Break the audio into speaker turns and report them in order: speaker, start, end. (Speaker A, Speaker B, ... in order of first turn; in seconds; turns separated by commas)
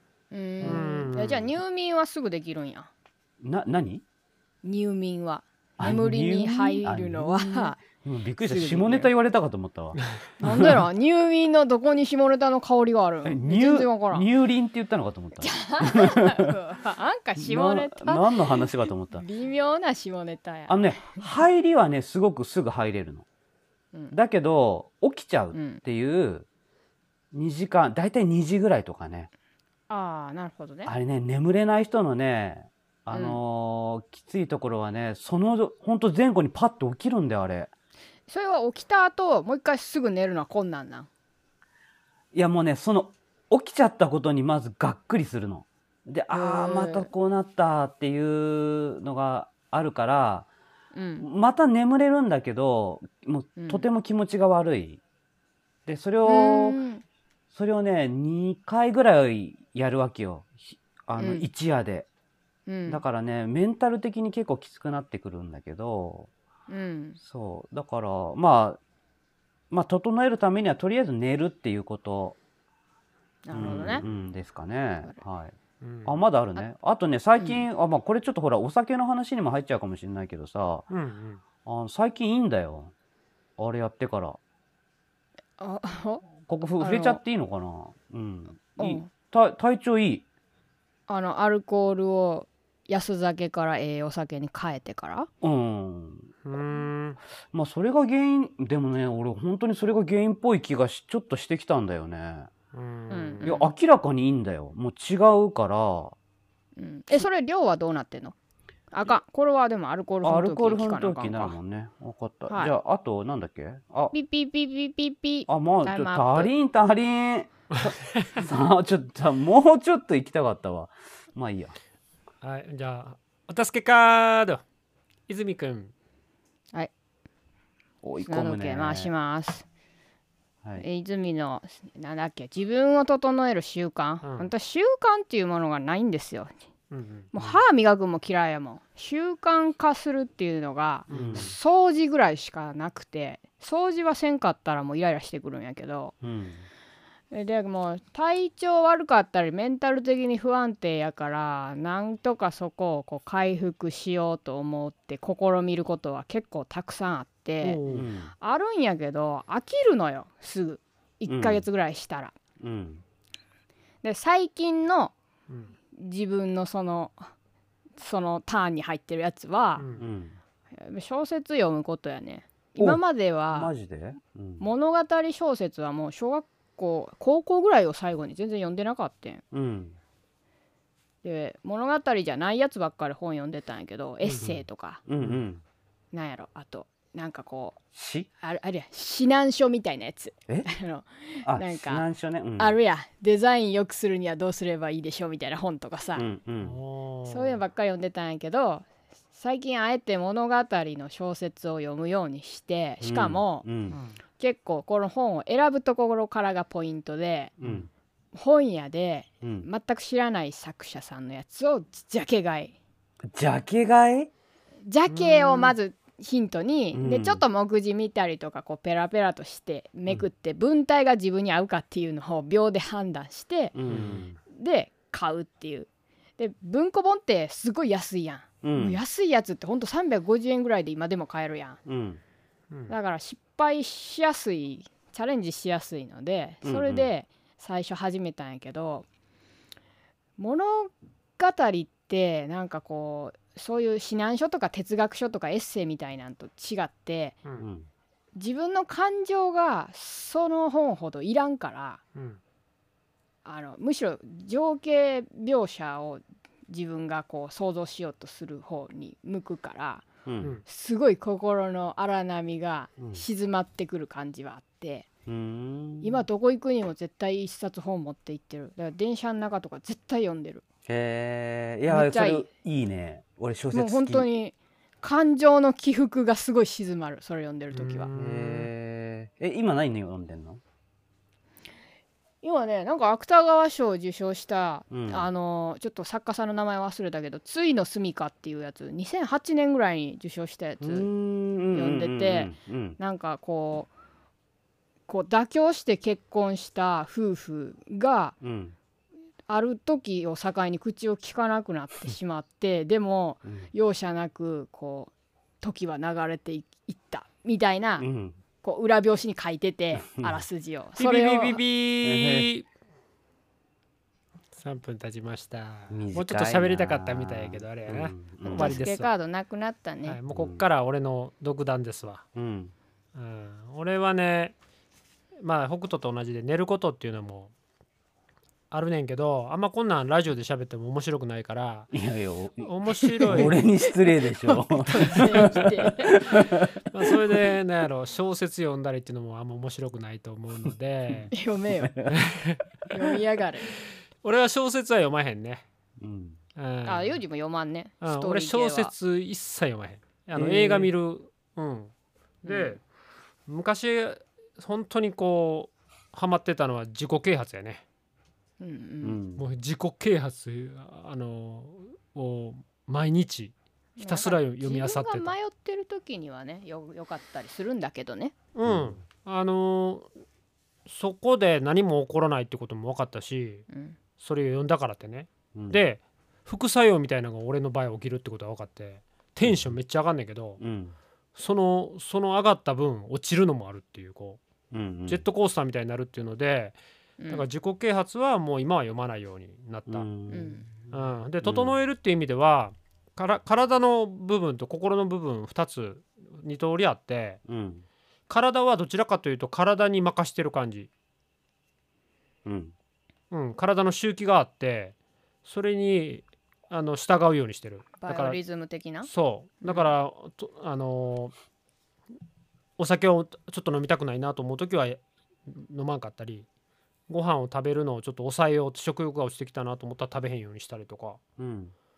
Speaker A: 0.3-2.9, Speaker B: 0.6-1.5, Speaker C: 3.4-4.0, Speaker A: 4.6-7.8, Speaker C: 5.8-10.0, Speaker A: 8.4-9.1, Speaker A: 10.4-14.3, Speaker C: 13.2-16.6, Speaker A: 15.4-21.2, Speaker C: 17.4-19.2, Speaker C: 20.7-23.3, Speaker C: 24.1-26.5, Speaker A: 25.5-25.8, Speaker C: 27.3-29.3, Speaker A: 29.9-30.9, Speaker C: 30.9-37.7, Speaker A: 33.1-33.4, Speaker A: 38.3-41.1, Speaker C: 42.3-50.5, Speaker A: 46.3-47.1, Speaker A: 50.9-51.3, Speaker C: 51.2-55.0, Speaker A: 53.6-53.9, Speaker C: 55.9-56.8, Speaker A: 56.2-57.0, Speaker C: 57.5-62.1, Speaker A: 61.2-61.5, Speaker A: 62.7-63.0, Speaker C: 62.9-66.3, Speaker A: 66.7-67.2, Speaker C: 67.2-68.8, Speaker C: 69.7-72.4, Speaker A: 73.5-74.0, Speaker C: 73.5-80.9, Speaker B: 75.8-76.2, Speaker A: 77.4-77.6, Speaker B: 80.9-81.4, Speaker C: 81.7-82.9, Speaker C: 83.6-84.4, Speaker A: 85.6-86.3, Speaker C: 86.5-90.2, Speaker A: 86.8-87.2, Speaker A: 88.8-89.1, Speaker A: 91.1-95.3, Speaker C: 95.4-96.3, Speaker B: 96.5-97.2, Speaker C: 97.5-102.5, Speaker B: 102.7-103.6, Speaker A: 103.1-103.7, Speaker C: 103.4-106.2, Speaker A: 106.8-108.4, Speaker A: 108.9-111.6, Speaker C: 110.2-114.1, Speaker A: 112.5-112.7, Speaker A: 114.1-116.5, Speaker C: 115.5-121.8, Speaker B: 117.7-118.4, Speaker B: 122.4-124.6, Speaker B: 125.3-125.9, Speaker C: 128.0-129.1, Speaker A: 128.2-129.7, Speaker A: 130.8-136.5, Speaker B: 134.2-134.5, Speaker B: 136.9-137.6, Speaker A: 137.3-146.1, Speaker B: 141.1-141.5, Speaker C: 141.1-141.6, Speaker C: 146.2-146.7, Speaker A: 147.3-157.8, Speaker B: 157.6-158.1, Speaker C: 157.9-158.3, Speaker A: 158.4-162.3, Speaker C: 161.3-161.6, Speaker C: 162.6-163.0, Speaker A: 164.0-165.1, Speaker B: 165.5-165.7, Speaker A: 165.9-167.3, Speaker A: 168.0-169.8, Speaker B: 169.8-170.1, Speaker C: 170.0-170.4, Speaker A: 170.8-173.7, Speaker C: 173.5-174.6, Speaker A: 174.6-179.4, Speaker C: 179.5-180.0, Speaker A: 181.2-185.0, Speaker C: 184.3-185.6, Speaker A: 186.1-187.8, Speaker C: 187.9-188.3, Speaker A: 188.4-192.1, Speaker C: 191.4-192.8, Speaker A: 192.6-196.2, Speaker C: 196.2-196.8, Speaker B: 196.6-197.6, Speaker A: 197.3-203.7, Speaker C: 203.0-204.0, Speaker A: 204.4-207.5, Speaker C: 207.6-207.9, Speaker A: 208.3-212.8, Speaker C: 209.4-209.7, Speaker C: 213.3-214.3, Speaker A: 214.8-223.8, Speaker C: 216.9-217.4, Speaker C: 223.7-224.4, Speaker B: 223.9-224.2, Speaker A: 224.5-231.8, Speaker C: 228.6-229.0, Speaker C: 231.9-232.2, Speaker A: 232.9-239.1, Speaker C: 236.6-237.1, Speaker A: 240.4-247.4, Speaker C: 247.6-247.9, Speaker A: 248.3-252.0, Speaker A: 253.4-260.1, Speaker C: 260.3-260.6, Speaker A: 260.6-265.1, Speaker C: 263.0-263.2, Speaker C: 265.3-266.2, Speaker A: 266.0-270.6, Speaker C: 270.9-274.3, Speaker A: 271.9-272.5, Speaker A: 273.7-278.1, Speaker B: 277.7-278.7, Speaker C: 278.1-280.6, Speaker A: 282.4-291.1, Speaker C: 284.9-285.3, Speaker C: 290.8-293.0, Speaker A: 291.7-293.9, Speaker A: 295.1-298.4, Speaker C: 298.4-298.8, Speaker A: 299.5-308.1, Speaker C: 308.0-308.4, Speaker A: 308.6-311.6, Speaker C: 310.0-310.4, Speaker B: 311.0-312.6, Speaker C: 312.0-312.5, Speaker B: 314.6-319.1, Speaker C: 315.9-318.8, Speaker A: 318.5-320.2, Speaker B: 320.1-322.2, Speaker C: 320.3-320.7, Speaker C: 322.4-322.7, Speaker B: 323.1-324.6, Speaker B: 325.4-327.5, Speaker B: 328.7-331.9, Speaker C: 331.9-332.7, Speaker B: 332.6-333.6, Speaker C: 333.2-337.4, Speaker A: 333.3-333.6, Speaker A: 334.7-336.2, Speaker B: 336.9-341.3, Speaker A: 341.3-342.0, Speaker C: 341.8-342.2, Speaker B: 342.1-342.6, Speaker A: 342.9-343.7, Speaker B: 344.2-345.6, Speaker C: 346.0-346.4, Speaker B: 346.6-347.2, Speaker A: 346.9-348.9, Speaker B: 348.0-351.9, Speaker C: 350.4-350.9, Speaker B: 352.4-352.8, Speaker A: 352.4-352.8, Speaker B: 353.5-357.8, Speaker A: 358.6-359.2, Speaker C: 359.0-359.4, Speaker B: 359.4-365.3, Speaker A: 364.0-368.3, Speaker B: 368.6-370.1, Speaker C: 368.6-369.0, Speaker B: 370.9-373.7, Speaker A: 373.7-374.0, Speaker B: 374.2-380.6, Speaker C: 375.5-375.8, Speaker C: 379.4-379.8, Speaker C: 380.6-380.9, Speaker B: 381.4-384.4, Speaker C: 384.7-385.2, Speaker B: 385.1-386.8, Speaker A: 387.2-387.5, Speaker B: 387.3-390.1, Speaker C: 389.9-390.9, Speaker A: 390.3-390.7, Speaker B: 390.9-397.4, Speaker C: 391.4-391.8, Speaker C: 397.5-397.8, Speaker B: 398.3-400.9, Speaker C: 402.4-402.7, Speaker B: 403.3-408.4, Speaker A: 408.0-409.1, Speaker B: 409.1-411.3, Speaker A: 409.6-409.9, Speaker B: 412.8-416.5, Speaker B: 417.1-421.2, Speaker C: 421.4-421.7